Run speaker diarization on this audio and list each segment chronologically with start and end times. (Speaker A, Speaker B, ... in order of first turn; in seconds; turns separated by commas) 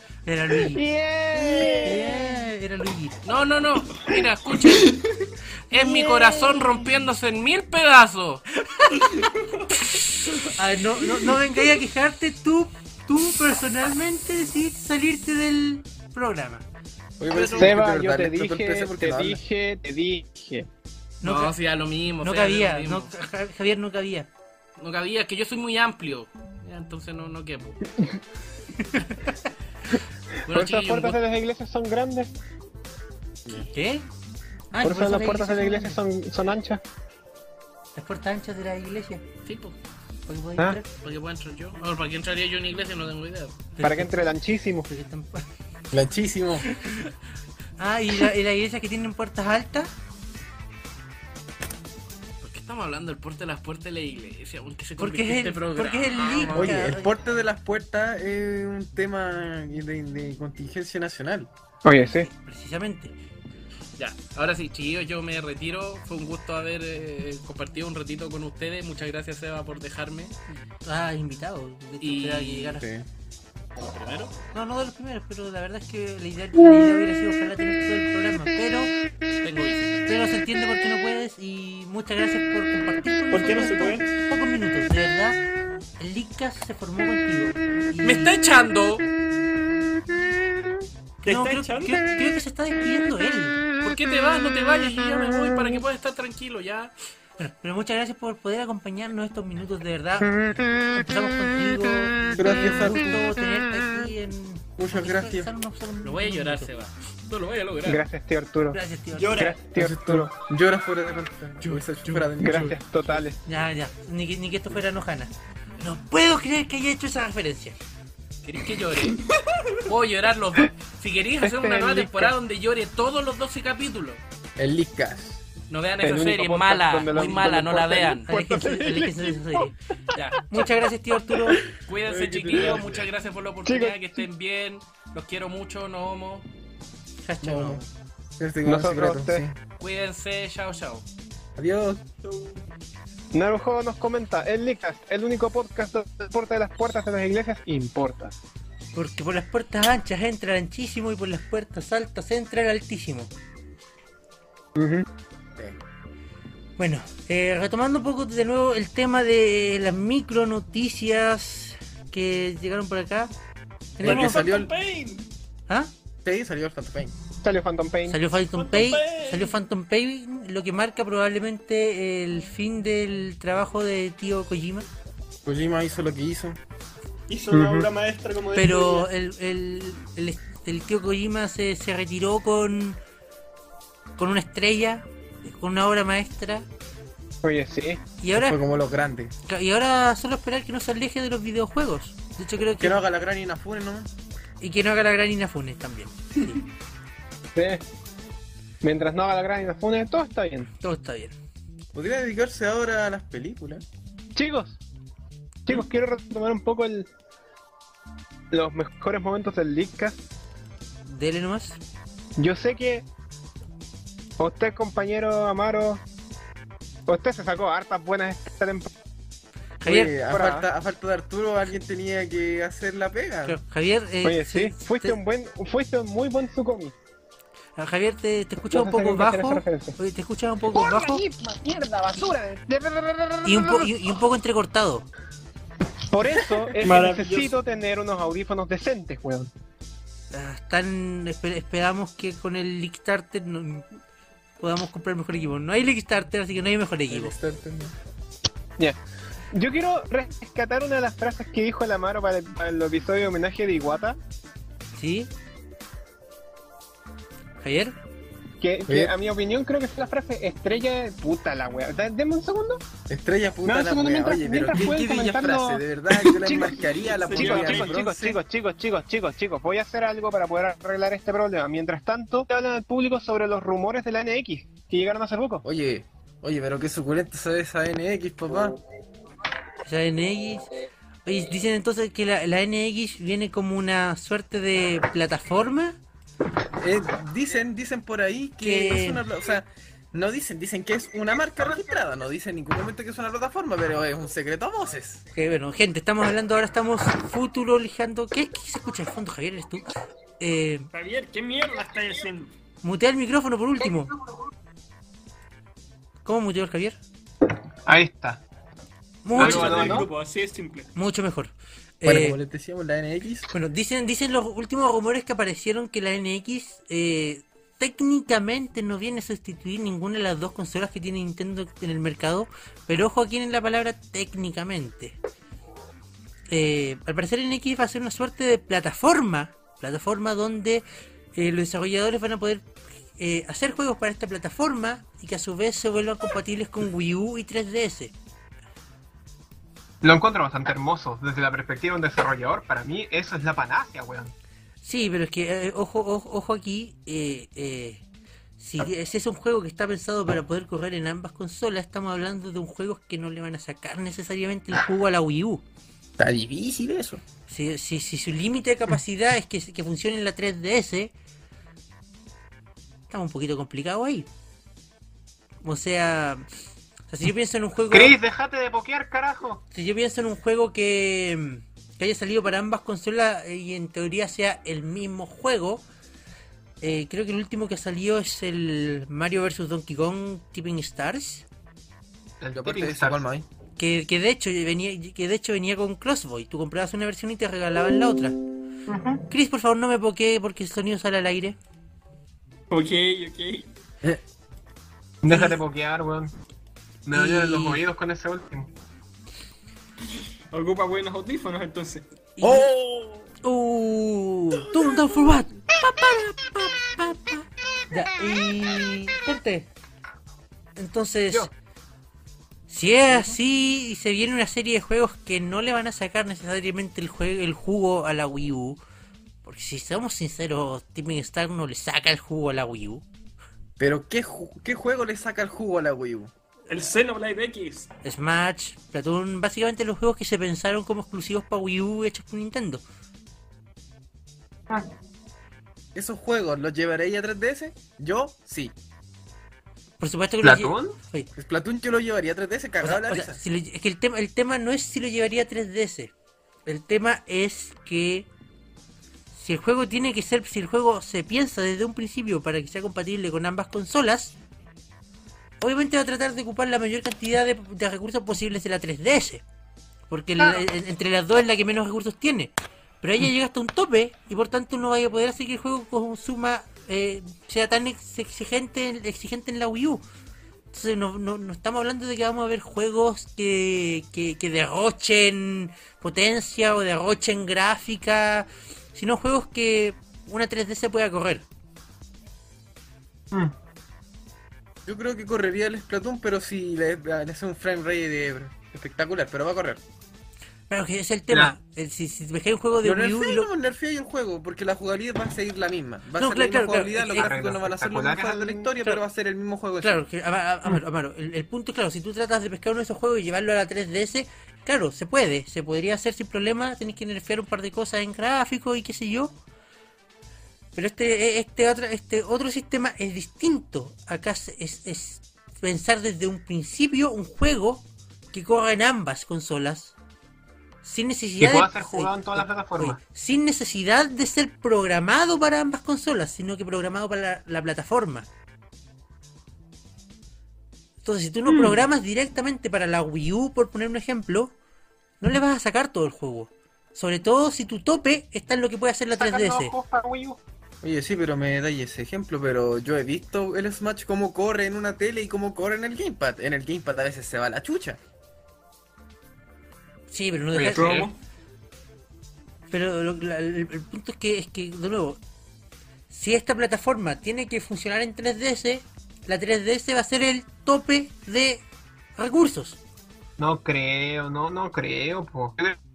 Speaker A: 0.2-0.8, Speaker B: 0.7-2.2, Speaker C: 1.4-2.0, Speaker A: 1.8-3.2, Speaker D: 3.2-5.0, Speaker C: 4.7-5.3, Speaker D: 5.7-8.4, Speaker B: 5.7-6.9, Speaker C: 8.9-9.8, Speaker A: 10.5-16.6, Speaker E: 17.2-19.4, Speaker D: 17.3-17.8, Speaker B: 17.6-20.7, Speaker A: 21.2-21.5, Speaker D: 21.2-23.1, Speaker A: 22.2-24.3, Speaker D: 24.8-27.8, Speaker A: 28.8-29.1, Speaker D: 30.5-31.2, Speaker B: 30.5-32.3, Speaker A: 33.6-34.1, Speaker A: 34.7-36.0, Speaker B: 34.8-36.8, Speaker A: 38.0-39.2, Speaker D: 39.5-39.8, Speaker A: 40.3-40.9, Speaker D: 41.0-43.7, Speaker A: 43.8-44.1, Speaker B: 43.8-44.9, Speaker A: 44.9-45.5, Speaker E: 45.9-46.7, Speaker A: 47.8-49.9, Speaker D: 52.4-56.8, Speaker A: 55.0-57.1, Speaker E: 56.5-61.5, Speaker B: 61.8-62.3, Speaker A: 62.0-63.1, Speaker D: 64.0-70.3, Speaker A: 70.8-72.9, Speaker D: 72.0-72.8, Speaker E: 72.8-73.1, Speaker D: 73.8-74.3, Speaker A: 74.5-78.9, Speaker D: 79.4-80.1, Speaker A: 80.1-85.4, Speaker C: 83.3-84.1, Speaker A: 86.0-88.3, Speaker D: 88.0-89.1, Speaker A: 91.2-93.7, Speaker C: 91.2-92.0, Speaker D: 93.8-96.9, Speaker A: 97.4-106.7, Speaker E: 102.4-103.1, Speaker E: 104.8-105.5, Speaker D: 106.0-108.0, Speaker B: 107.8-108.8, Speaker A: 108.7-109.5, Speaker C: 109.1-109.6, Speaker B: 109.3-110.3, Speaker E: 109.8-112.8, Speaker A: 112.0-112.3, Speaker B: 112.4-113.4, Speaker A: 113.5-117.8, Speaker D: 118.4-119.2, Speaker C: 119.1-119.8, Speaker D: 119.9-124.2, Speaker B: 121.4-122.3, Speaker E: 124.6-125.4, Speaker D: 125.7-128.3, Speaker B: 126.0-129.6, Speaker A: 128.3-129.8, Speaker D: 130.2-130.5, Speaker A: 130.5-131.6, Speaker D: 131.8-136.5, Speaker E: 132.1-133.1, Speaker B: 133.7-134.2, Speaker A: 137.2-137.9, Speaker E: 137.4-137.8, Speaker E: 138.4-139.6, Speaker B: 138.7-139.4, Speaker D: 139.8-141.1, Speaker E: 141.6-142.0, Speaker C: 142.2-142.6, Speaker B: 143.3-148.3, Speaker A: 148.9-153.3, Speaker B: 154.8-155.1, Speaker A: 156.8-163.3, Speaker A: 164.0-164.4, Speaker E: 164.0-164.7, Speaker C: 164.0-165.3, Speaker E: 166.2-167.2, Speaker B: 167.4-168.2, Speaker A: 168.1-174.9, Speaker C: 168.5-169.6, Speaker E: 175.4-176.6, Speaker C: 177.3-179.1, Speaker B: 177.5-177.9, Speaker A: 178.5-183.0, Speaker A: 184.2-186.7, Speaker B: 187.4-188.0, Speaker A: 188.2-188.6, Speaker E: 188.3-189.3, Speaker A: 189.5-193.0, Speaker E: 192.8-194.1, Speaker A: 194.6-196.6, Speaker B: 197.6-197.8, Speaker B: 198.8-200.7, Speaker A: 200.8-201.4, Speaker E: 201.9-203.8, Speaker B: 204.3-204.8, Speaker B: 205.7-207.1, Speaker B: 208.5-210.2, Speaker A: 211.1-211.8, Speaker B: 212.4-213.1, Speaker B: 214.4-216.0, Speaker B: 217.1-218.9, Speaker A: 219.8-220.1, Speaker E: 219.8-223.6, Speaker B: 220.3-220.7, Speaker A: 223.4-225.2, Speaker B: 224.2-226.9, Speaker A: 227.8-231.2, Speaker B: 228.7-230.0, Speaker B: 230.7-233.9, Speaker A: 233.4-235.1, Speaker B: 236.1-239.5, Speaker C: 236.8-237.6, Speaker A: 240.3-243.9, Speaker A: 244.6-247.3, Speaker E: 247.1-247.9, Speaker B: 249.5-254.2, Speaker A: 254.9-255.3, Speaker A: 257.6-258.0, Speaker B: 258.6-262.8, Speaker E: 258.9-259.1, Speaker E: 263.1-268.4, Speaker B: 263.6-275.6, Speaker C: 267.2-267.9, Speaker E: 275.6-278.8, Speaker A: 279.8-280.7, Speaker A: 281.2-286.0, Speaker E: 286.8-295.2, Speaker A: 288.6-289.2, Speaker A: 295.3-300.9, Speaker C: 300.9-302.5, Speaker A: 302.8-304.1, Speaker A: 306.2-307.0, Speaker B: 307.9-308.4, Speaker A: 309.2-310.1, Speaker C: 309.3-310.9, Speaker B: 309.4-310.1, Speaker A: 310.9-312.4, Speaker E: 312.0-313.5, Speaker A: 313.5-325.2, Speaker A: 326.5-338.1, Speaker B: 340.0-344.3, Speaker A: 344.8-348.0, Speaker A: 348.6-355.6, Speaker E: 356.2-357.2, Speaker A: 357.5-361.1, Speaker A: 363.1-364.3, Speaker A: 365.6-366.4, Speaker A: 367.1-368.2, Speaker B: 367.9-369.6, Speaker A: 369.7-375.8, Speaker A: 376.8-381.4, Speaker B: 382.4-383.2, Speaker E: 382.5-383.5, Speaker A: 383.8-388.4, Speaker B: 388.9-389.3, Speaker A: 389.3-391.6, Speaker C: 392.7-393.7, Speaker B: 395.2-396.4, Speaker A: 395.3-395.6, Speaker B: 397.1-398.7, Speaker A: 397.1-397.8, Speaker C: 400.5-402.1, Speaker A: 402.4-402.7, Speaker E: 402.4-403.2, Speaker A: 403.4-409.7, Speaker A: 410.8-411.5, Speaker A: 412.7-418.8, Speaker A: 419.4-423.0, Speaker E: 423.8-426.3, Speaker C: 426.7-427.9, Speaker A: 428.0-432.8, Speaker E: 435.9-438.8, Speaker A: 440.0-441.3, Speaker B: 440.4-441.0, Speaker E: 441.4-443.4, Speaker A: 442.8-446.1, Speaker A: 446.7-448.3, Speaker A: 449.3-454.4, Speaker A: 455.6-459.4, Speaker A: 460.1-470.0, Speaker B: 460.4-460.6, Speaker A: 470.7-481.5, Speaker E: 484.9-489.8, Speaker A: 490.7-493.5, Speaker E: 492.8-500.0, Speaker A: 496.2-497.3, Speaker B: 497.1-498.7, Speaker A: 499.8-509.4, Speaker A: 510.7-520.0, Speaker A: 520.8-528.3, Speaker B: 521.4-523.0, Speaker A: 531.0-534.5, Speaker B: 531.5-531.8, Speaker A: 535.2-539.7, Speaker B: 539.1-540.4, Speaker E: 540.8-548.0, Speaker A: 550.1-551.1, Speaker B: 550.5-551.1, Speaker C: 550.7-551.2, Speaker A: 552.7-555.2, Speaker A: 556.1-561.6, Speaker A: 562.2-562.8, Speaker B: 563.4-565.8